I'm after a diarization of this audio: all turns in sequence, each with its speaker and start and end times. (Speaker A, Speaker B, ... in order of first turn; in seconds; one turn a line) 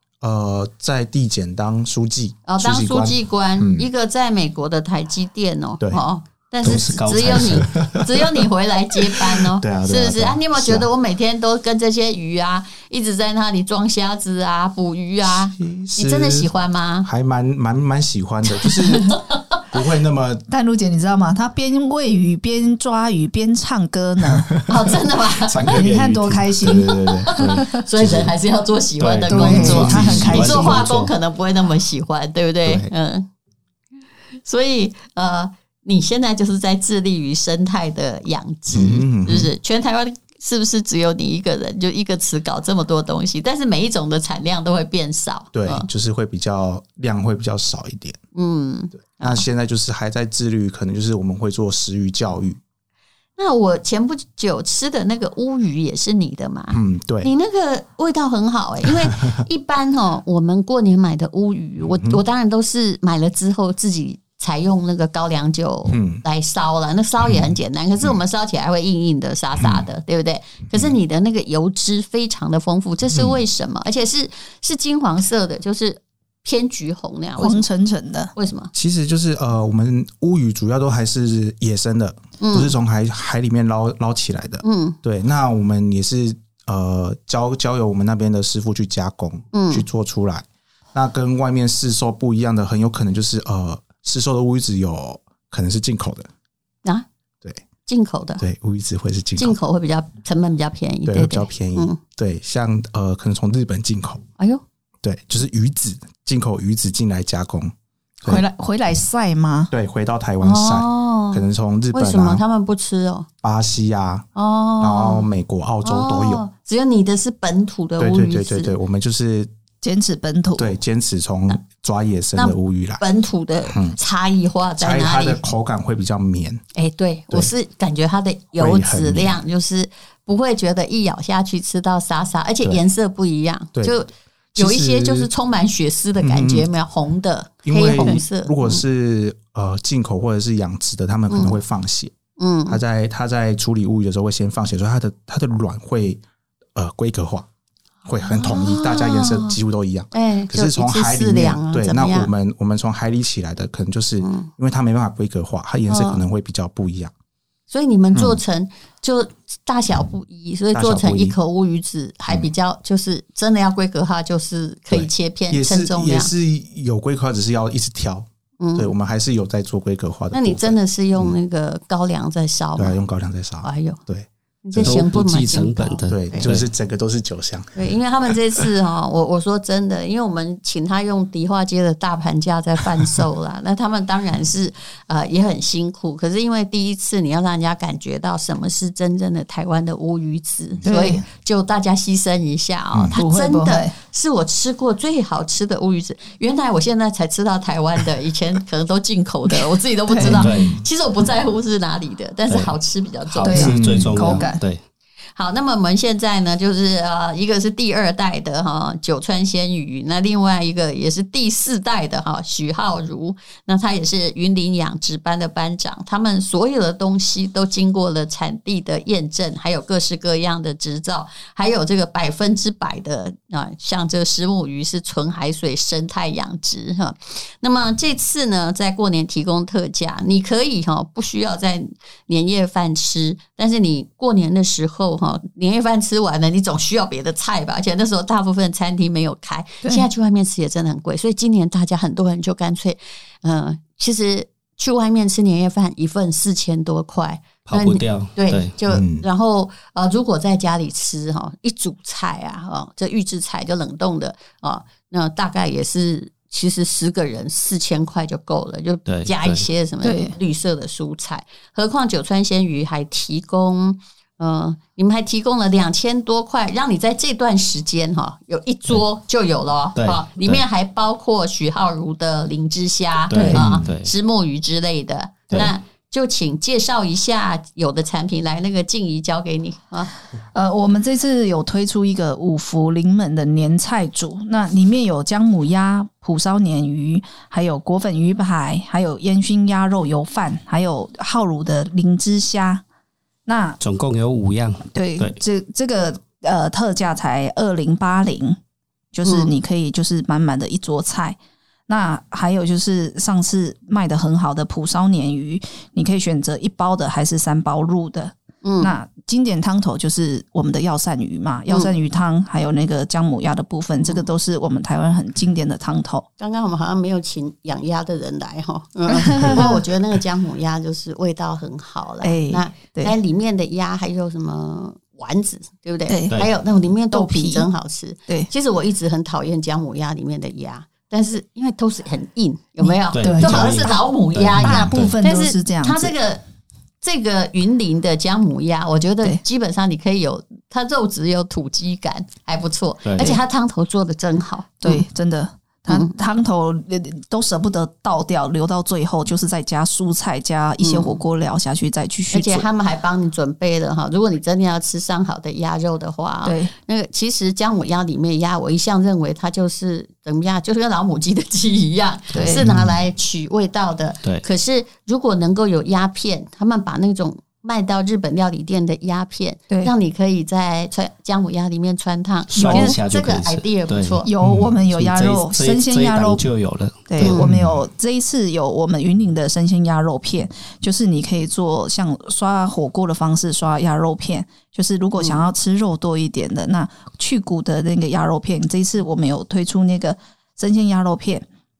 Speaker A: 0.2-3.9
Speaker B: 2.5-17.1
Speaker C: 6.6-7.9
Speaker A: 6.6-8.1
Speaker A: 9.2-10.9
Speaker A: 15.4-16.5
Speaker A: 17.0-20.4
Speaker B: 18.6-19.6
Speaker D: 20.5-24.5
Speaker A: 24.3-28.3
Speaker B: 24.7-25.8
Speaker D: 25.7-27.6
Speaker B: 27.2-33.3
Speaker C: 29.0-31.1
Speaker D: 29.3-30.9
Speaker A: 29.6-30.4
Speaker A: 32.6-32.9
Speaker B: 34.4-45.9
Speaker A: 38.7-39.5
Speaker A: 45.5-48.2
Speaker B: 48.3-49.5
Speaker A: 49.0-52.6
Speaker B: 53.4-77.7
Speaker A: 56.7-57.3
Speaker A: 65.9-66.2
Speaker D: 77.4-78.3
Speaker B: 78.3-78.7
Speaker A: 78.7-96.3
Speaker B: 82.4-82.7
Speaker B: 84.6-85.0
Speaker B: 89.5-89.8
Speaker B: 97.8-98.4
Speaker A: 98.4-99.6
Speaker B: 99.4-102.0
Speaker A: 101.1-104.2
Speaker A: 105.0-108.4
Speaker D: 108.2-109.7
Speaker A: 109.7-112.4
Speaker B: 110.4-113.3
Speaker A: 113.4-114.3
Speaker B: 114.3-115.3
Speaker A: 114.8-116.4
Speaker B: 115.8-118.7
Speaker A: 118.0-119.5
Speaker D: 119.8-120.8
Speaker A: 120.6-123.0
Speaker B: 122.3-125.4
Speaker A: 123.7-124.0
Speaker A: 124.8-126.6
Speaker B: 126.7-138.8
Speaker A: 128.6-129.4
Speaker A: 134.5-135.3
Speaker A: 136.2-136.7
Speaker A: 137.6-142.1
Speaker B: 141.3-141.6
Speaker B: 142.4-142.8
Speaker A: 142.7-146.2
Speaker A: 146.7-147.4
Speaker A: 148.1-157.1
Speaker B: 148.2-149.6
Speaker B: 150.1-152.3
Speaker B: 154.2-154.5
Speaker B: 155.9-156.2
Speaker B: 157.7-166.3
Speaker A: 158.1-158.4
Speaker A: 160.7-161.3
Speaker A: 164.9-171.4
Speaker B: 168.6-168.9
Speaker B: 170.3-173.0
Speaker A: 172.8-175.0
Speaker B: 173.6-174.0
Speaker B: 174.6-176.5
Speaker C: 174.8-176.6
Speaker A: 176.1-177.7
Speaker B: 177.7-203.8
Speaker D: 190.8-191.2
Speaker A: 192.9-193.2
Speaker D: 193.1-193.9
Speaker D: 199.5-200.4
Speaker C: 200.2-200.8
Speaker A: 200.3-200.8
Speaker C: 203.3-204.8
Speaker D: 203.4-204.6
Speaker A: 203.6-204.3
Speaker B: 205.3-280.1
Speaker C: 247.7-248.7
Speaker A: 248.9-249.2
Speaker C: 259.1-259.6
Speaker D: 260.0-260.4
Speaker C: 270.0-270.6
Speaker C: 273.3-274.1
Speaker D: 273.3-273.7
Speaker A: 273.6-273.9
Speaker D: 280.5-292.8
Speaker D: 293.4-293.8
Speaker C: 293.8-295.4
Speaker D: 294.9-298.6
Speaker D: 299.1-316.2
Speaker B: 299.2-299.5
Speaker B: 308.6-308.9
Speaker B: 311.7-311.9
Speaker B: 316.4-336.4
Speaker D: 319.1-319.8
Speaker D: 322.2-323.1
Speaker D: 326.1-326.4
Speaker D: 327.1-327.7
Speaker D: 332.8-333.9
Speaker C: 333.1-335.1
Speaker D: 334.6-336.1
Speaker B: 337.0-345.0
Speaker C: 343.0-343.4
Speaker D: 344.8-352.7
Speaker B: 345.9-346.2
Speaker B: 350.8-351.2
Speaker B: 352.3-374.3
Speaker D: 356.4-356.7
Speaker D: 362.3-362.7
Speaker A: 362.6-362.9
Speaker C: 372.5-374.2
Speaker D: 372.6-373.0
Speaker D: 374.2-376.4
Speaker A: 374.4-374.7
Speaker C: 374.9-377.4
Speaker D: 377.1-391.4
Speaker B: 377.2-377.5
Speaker A: 377.4-377.8
Speaker B: 385.2-385.5